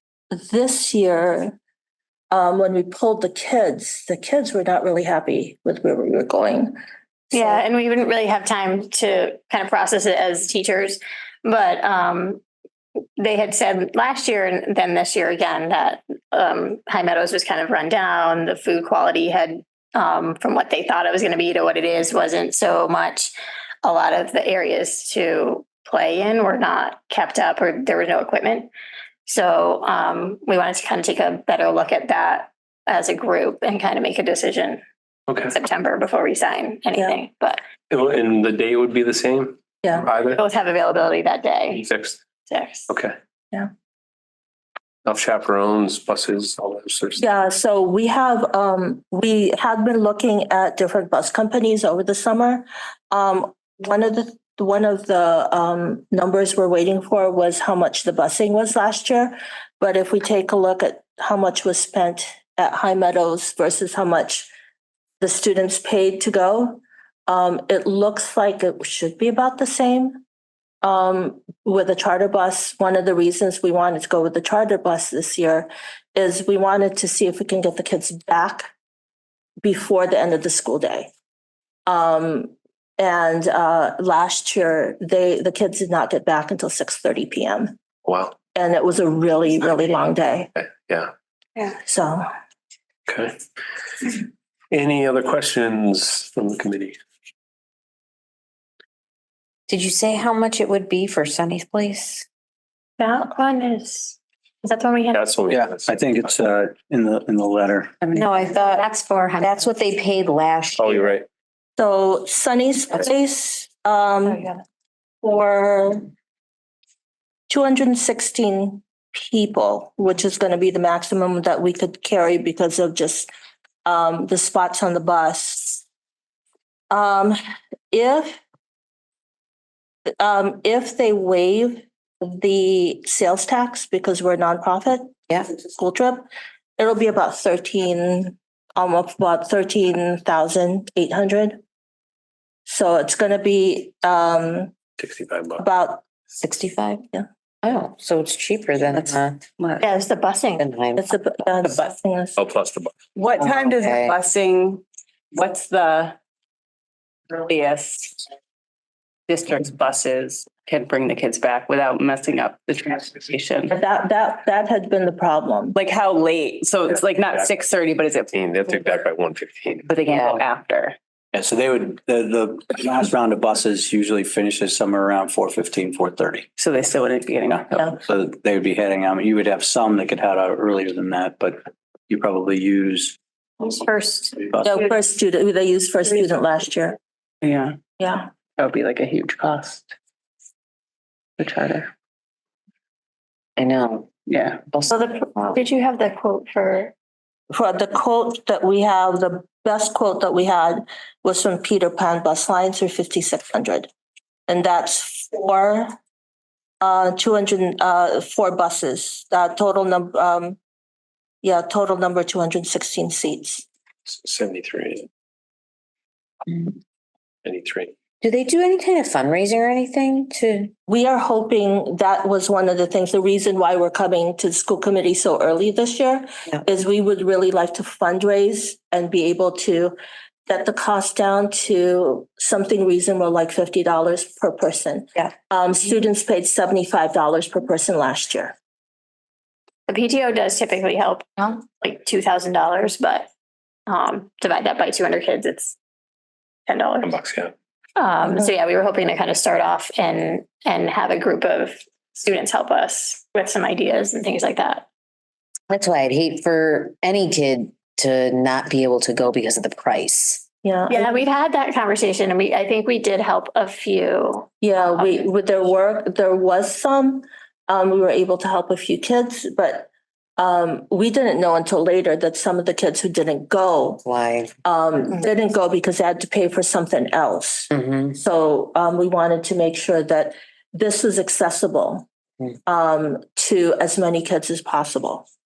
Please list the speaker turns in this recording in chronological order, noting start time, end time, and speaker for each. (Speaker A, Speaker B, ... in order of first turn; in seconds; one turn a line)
Speaker A: 0.3-1.6
Speaker A: 2.3-6.8
Speaker A: 7.3-7.6
Speaker B: 7.3-12.4
Speaker B: 13.2-28.7
Speaker B: 29.3-34.8
Speaker C: 35.3-35.5
Speaker B: 35.5-37.6
Speaker C: 37.9-40.4
Speaker A: 39.8-40.1
Speaker B: 40.3-41.8
Speaker C: 41.7-42.2
Speaker B: 42.5-42.9
Speaker C: 42.9-43.1
Speaker C: 45.0-47.2
Speaker A: 47.2-64.5
Speaker A: 65.2-70.2
Speaker A: 70.8-78.7
Speaker A: 79.6-81.1
Speaker A: 81.9-87.8
Speaker C: 88.0-88.3
Speaker A: 88.5-90.5
Speaker C: 90.8-91.1
Speaker A: 91.8-92.3
Speaker C: 93.1-93.4
Speaker C: 94.7-97.0
Speaker D: 99.7-102.2
Speaker B: 103.0-105.2
Speaker C: 105.1-106.4
Speaker E: 105.5-108.2
Speaker D: 108.1-108.9
Speaker B: 108.3-109.7
Speaker D: 109.4-111.1
Speaker C: 110.8-111.3
Speaker A: 111.8-114.4
Speaker B: 114.3-114.6
Speaker A: 115.2-116.1
Speaker A: 117.5-123.3
Speaker A: 123.8-125.8
Speaker A: 126.9-127.4
Speaker A: 127.9-128.4
Speaker A: 130.2-136.3
Speaker A: 136.8-141.6
Speaker A: 142.7-144.8
Speaker C: 145.0-145.6
Speaker A: 145.6-146.0
Speaker D: 146.4-147.0
Speaker D: 147.6-149.4
Speaker F: 148.9-149.8
Speaker B: 149.8-150.6
Speaker D: 150.6-151.1
Speaker A: 151.0-152.4
Speaker C: 152.4-153.0
Speaker F: 153.2-156.2
Speaker D: 153.4-154.1
Speaker F: 157.3-158.2
Speaker F: 159.3-163.7
Speaker A: 163.7-165.8
Speaker F: 165.7-169.0
Speaker C: 166.9-167.4
Speaker C: 168.3-169.9
Speaker F: 169.8-171.0
Speaker D: 170.1-170.4
Speaker E: 171.3-176.5
Speaker F: 176.6-178.0
Speaker E: 177.9-183.2
Speaker B: 183.6-184.4
Speaker A: 184.6-187.0
Speaker F: 187.4-187.8
Speaker A: 188.0-188.3
Speaker F: 188.6-189.9
Speaker F: 191.4-191.9
Speaker D: 193.6-194.1
Speaker F: 194.3-194.6
Speaker B: 194.9-196.9
Speaker A: 197.5-203.9
Speaker A: 204.5-206.0
Speaker A: 206.8-210.6
Speaker A: 211.4-213.7
Speaker C: 214.1-215.1
Speaker C: 217.4-217.9
Speaker D: 218.2-220.7
Speaker A: 220.9-238.5
Speaker B: 239.9-243.3
Speaker B: 243.9-245.8
Speaker B: 246.7-247.2
Speaker C: 247.0-247.5
Speaker B: 248.0-254.8
Speaker D: 255.7-260.4
Speaker A: 260.6-261.1
Speaker B: 260.9-265.2
Speaker A: 264.6-274.0
Speaker D: 274.0-274.5
Speaker A: 274.6-282.1
Speaker D: 277.7-278.1
Speaker A: 282.6-285.2